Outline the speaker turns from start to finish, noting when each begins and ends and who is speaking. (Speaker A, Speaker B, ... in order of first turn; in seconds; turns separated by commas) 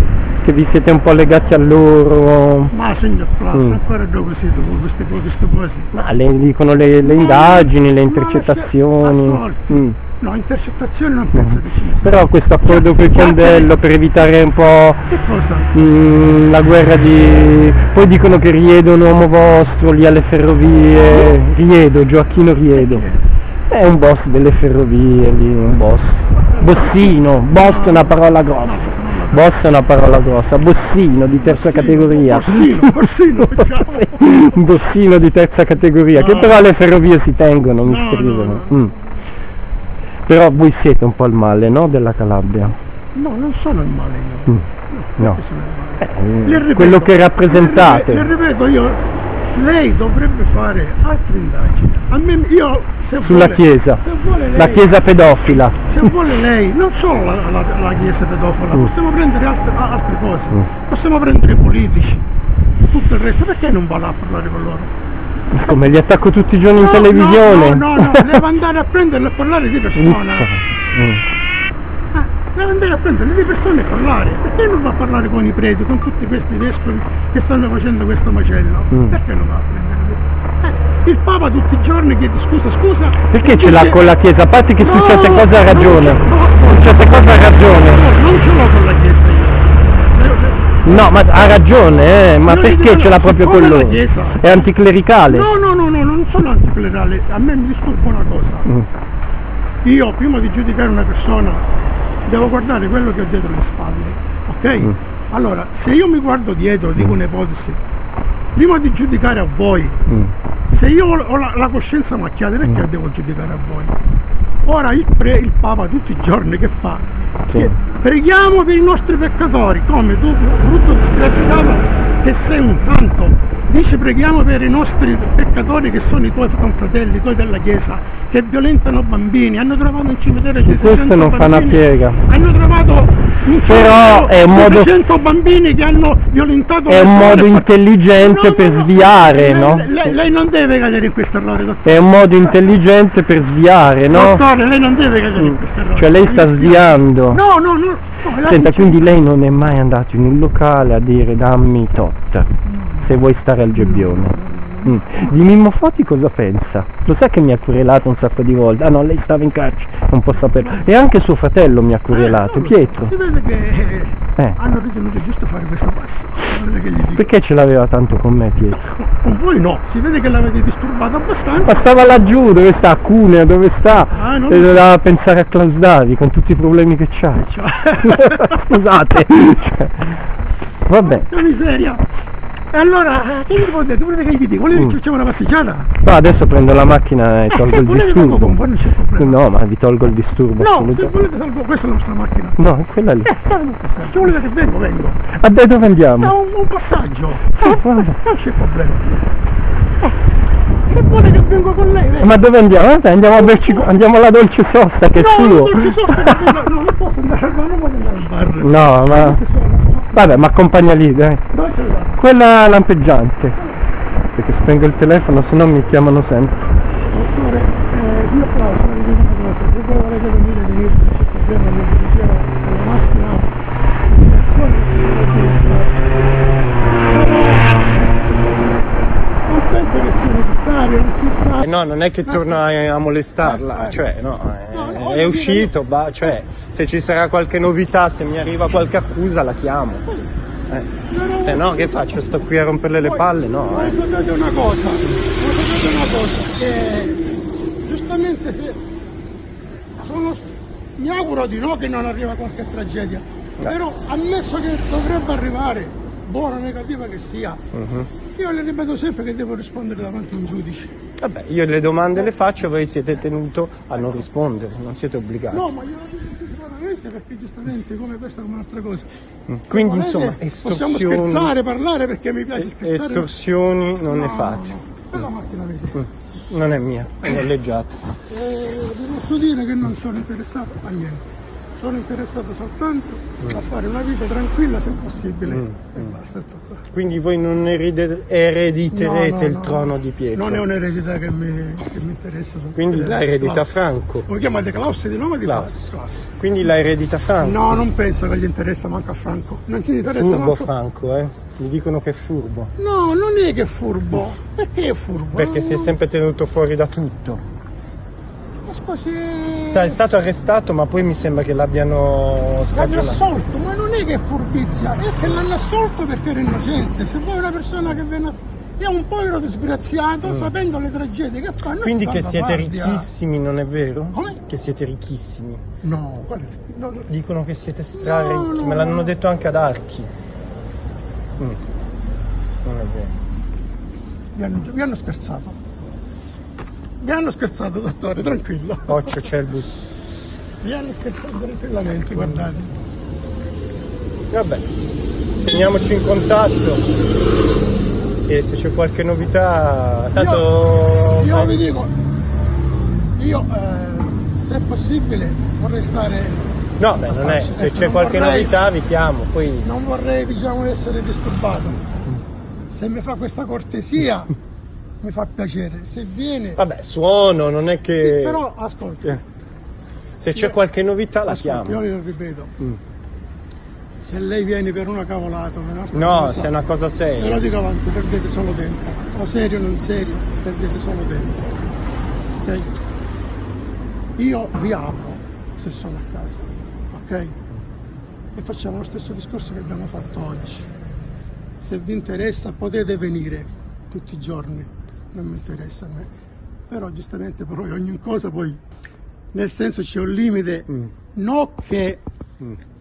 Speaker A: 0.4-2.7, Speaker B: 2.7-5.9, Speaker A: 3.5-3.8, Speaker A: 5.9-10.0, Speaker B: 7.0-13.7, Speaker A: 11.3-15.1, Speaker B: 15.1-15.7, Speaker A: 15.7-23.1, Speaker B: 22.7-23.2, Speaker A: 23.7-33.0, Speaker B: 26.4-29.5, Speaker B: 31.4-34.5, Speaker A: 33.5-38.9, Speaker B: 36.1-36.6, Speaker B: 37.8-38.9, Speaker A: 40.3-42.8, Speaker B: 43.1-49.0, Speaker A: 46.0-48.3, Speaker B: 49.5-55.0, Speaker A: 53.2-56.1, Speaker B: 55.8-62.2, Speaker B: 62.9-64.9, Speaker A: 65.5-68.4, Speaker B: 66.7-70.5, Speaker A: 70.0-71.2, Speaker B: 72.1-84.1, Speaker A: 83.2-88.0, Speaker B: 84.8-90.8, Speaker A: 90.8-95.5, Speaker B: 92.5-94.7, Speaker B: 95.3-98.7, Speaker B: 99.8-101.7, Speaker B: 102.2-107.8, Speaker B: 108.5-110.0, Speaker A: 110.1-110.3, Speaker B: 110.7-114.0, Speaker B: 114.7-142.6, Speaker A: 130.6-132.2, Speaker A: 133.7-134.9, Speaker A: 136.9-140.1, Speaker A: 141.8-144.4, Speaker B: 144.1-149.1, Speaker A: 145.4-147.4, Speaker A: 148.3-163.1, Speaker B: 153.8-155.3, Speaker B: 162.1-167.2, Speaker A: 167.1-168.8, Speaker B: 168.9-171.8, Speaker A: 171.6-180.2, Speaker B: 174.1-174.8, Speaker B: 177.5-178.6, Speaker A: 180.9-181.3, Speaker B: 181.0-182.0, Speaker B: 182.7-185.9, Speaker A: 186.0-188.6, Speaker B: 187.5-189.4, Speaker A: 189.2-191.2, Speaker B: 190.6-192.6, Speaker A: 192.6-193.5, Speaker B: 193.3-195.2, Speaker A: 195.3-196.3, Speaker B: 196.2-199.1, Speaker A: 197.6-198.2, Speaker B: 200.9-202.4, Speaker A: 202.2-206.5, Speaker B: 203.3-203.9, Speaker B: 205.1-210.2, Speaker A: 208.6-209.4, Speaker A: 210.1-211.4, Speaker B: 211.5-212.2, Speaker A: 212.2-213.6, Speaker A: 214.3-216.6, Speaker B: 217.1-223.5, Speaker B: 224.1-226.2, Speaker B: 227.0-228.0, Speaker B: 229.5-231.6, Speaker C: 231.6-240.1, Speaker B: 233.4-234.0, Speaker B: 234.7-235.7, Speaker C: 240.7-244.0, Speaker B: 241.1-242.0, Speaker B: 243.0-247.3, Speaker B: 247.8-248.8, Speaker B: 250.0-257.6, Speaker C: 257.7-258.1, Speaker B: 258.4-260.9, Speaker C: 261.2-265.7, Speaker B: 265.5-269.1, Speaker C: 269.5-271.5, Speaker B: 269.7-273.3, Speaker C: 272.6-274.7, Speaker B: 274.0-276.1, Speaker C: 275.9-278.0, Speaker B: 278.3-286.9, Speaker C: 285.5-285.9, Speaker C: 286.9-290.6, Speaker B: 288.9-296.3, Speaker C: 292.8-294.3, Speaker C: 295.4-297.8, Speaker B: 297.4-300.7, Speaker C: 300.0-302.7, Speaker B: 302.8-306.0, Speaker C: 305.3-307.4, Speaker B: 308.6-310.0, Speaker C: 309.5-313.2, Speaker B: 312.7-323.1, Speaker C: 320.3-320.5, Speaker C: 321.8-325.6, Speaker B: 324.1-324.4, Speaker B: 325.8-327.1, Speaker C: 327.1-330.1, Speaker B: 327.9-329.1, Speaker C: 332.6-333.1, Speaker B: 334.3-335.6, Speaker B: 337.0-339.1, Speaker C: 338.9-339.9, Speaker B: 340.6-342.7, Speaker C: 344.3-344.7, Speaker C: 345.4-346.9, Speaker C: 348.3-351.6, Speaker B: 350.1-351.9, Speaker B: 353.1-358.6, Speaker C: 356.8-359.7, Speaker B: 359.6-362.0, Speaker B: 362.7-364.3, Speaker B: 365.0-366.6, Speaker C: 366.6-368.4, Speaker B: 368.0-369.2, Speaker C: 370.2-371.8, Speaker B: 371.2-372.5, Speaker B: 374.0-376.5, Speaker C: 375.9-377.4, Speaker B: 377.2-381.6, Speaker B: 382.4-382.7, Speaker B: 384.2-387.4, Speaker B: 388.3-390.7, Speaker B: 391.6-396.1, Speaker B: 396.7-398.6, Speaker B: 399.3-402.0